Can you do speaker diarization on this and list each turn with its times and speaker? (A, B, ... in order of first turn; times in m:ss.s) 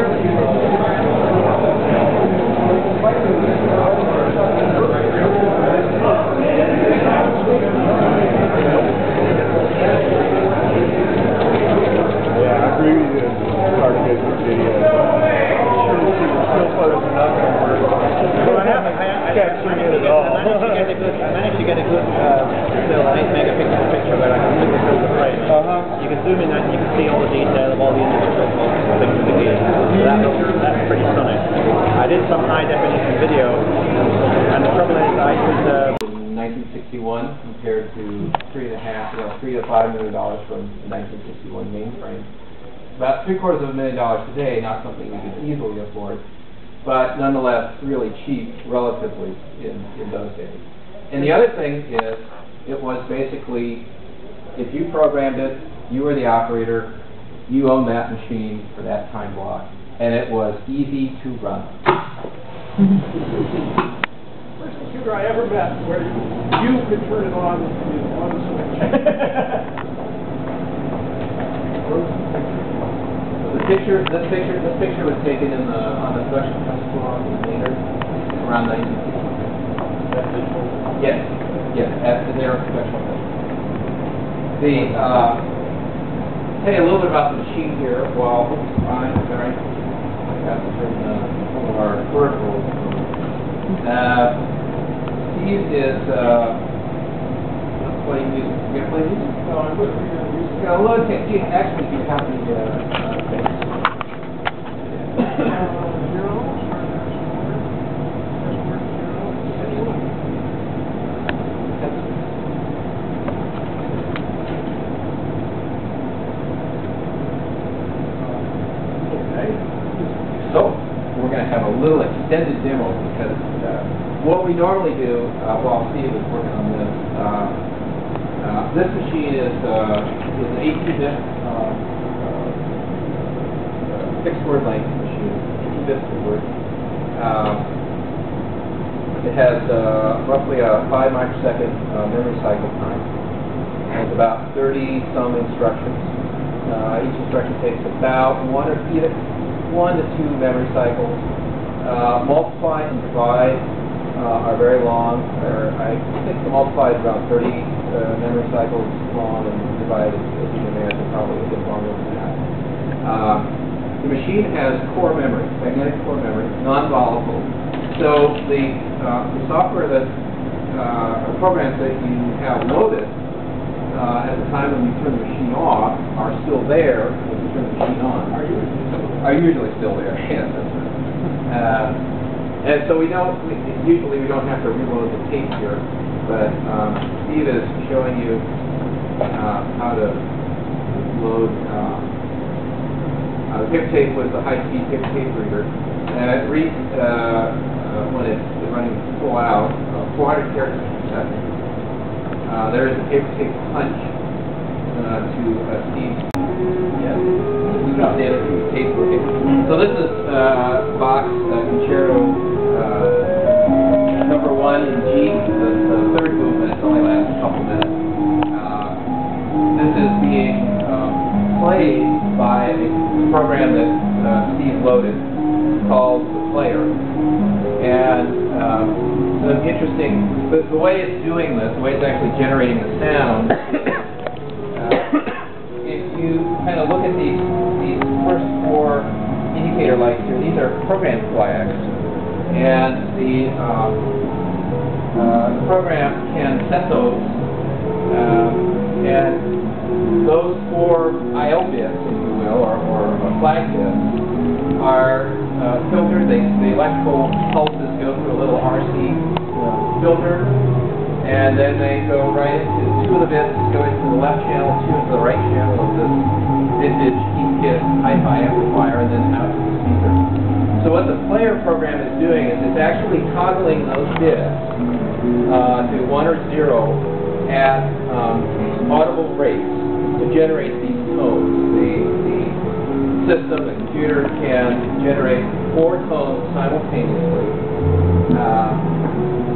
0:07.0-0:08.1 A
0:15.8-0:17.0 A
0:17.4-0:17.7 B
0:18.2-0:35.9 B
0:18.3-0:21.0 A
0:36.0-0:42.3 C
0:43.0-0:46.2 C
0:46.8-0:53.9 C
0:54.6-0:57.0 C
0:57.5-1:01.8 C
1:03.1-1:03.6 A
1:04.6-1:09.6 A
1:11.9-1:12.6 B
1:13.4-1:17.8 C
1:18.4-1:19.5 C
1:20.1-1:20.8 B
1:21.0-1:23.3 C
1:24.6-1:25.4 C
1:24.7-1:25.1 B
1:26.6-1:29.6 C
1:30.3-1:33.1 C
1:33.8-1:34.4 C
1:35.2-1:36.6 C
1:37.8-1:39.4 C
1:39.4-1:40.8 A
1:40.4-1:43.8 C
1:45.2-1:45.5 C
1:45.4-1:47.7 A
1:48.4-1:50.1 A
1:49.4-1:50.2 C
1:51.7-1:52.4 C
1:58.2-2:00.0 A
2:00.3-2:07.6 C
2:08.4-2:12.8 C
2:13.8-2:16.5 C
2:17.1-2:17.7 C
2:19.2-2:23.1 C
2:23.9-2:26.1 C
2:26.7-2:31.3 C
2:31.8-2:42.4 C
2:43.0-2:50.2 C
2:50.7-2:53.2 C
2:53.9-2:58.4 C
2:58.3-2:59.3 A
2:59.2-3:02.0 C
3:02.6-3:08.5 C
3:09.3-3:10.2 C
3:10.9-3:12.1 C
3:13.5-3:21.6 C
3:22.5-3:24.1 C
3:24.9-3:26.3 C
3:26.9-3:33.4 C
3:34.2-3:38.0 C
3:38.5-3:39.0 C
3:39.7-3:45.3 C
3:45.8-3:47.0 C
3:47.8-3:54.1 C
3:54.7-3:55.3 C
3:55.8-4:01.9 C
4:02.5-4:04.0 C
4:05.1-4:07.4 C
4:08.1-4:09.5 C
4:10.2-4:14.2 C
4:14.8-4:20.5 C
4:21.2-4:30.2 C
4:30.8-4:34.8 C
4:35.4-4:42.6 C
4:43.2-4:47.6 C
4:48.3-4:48.9 C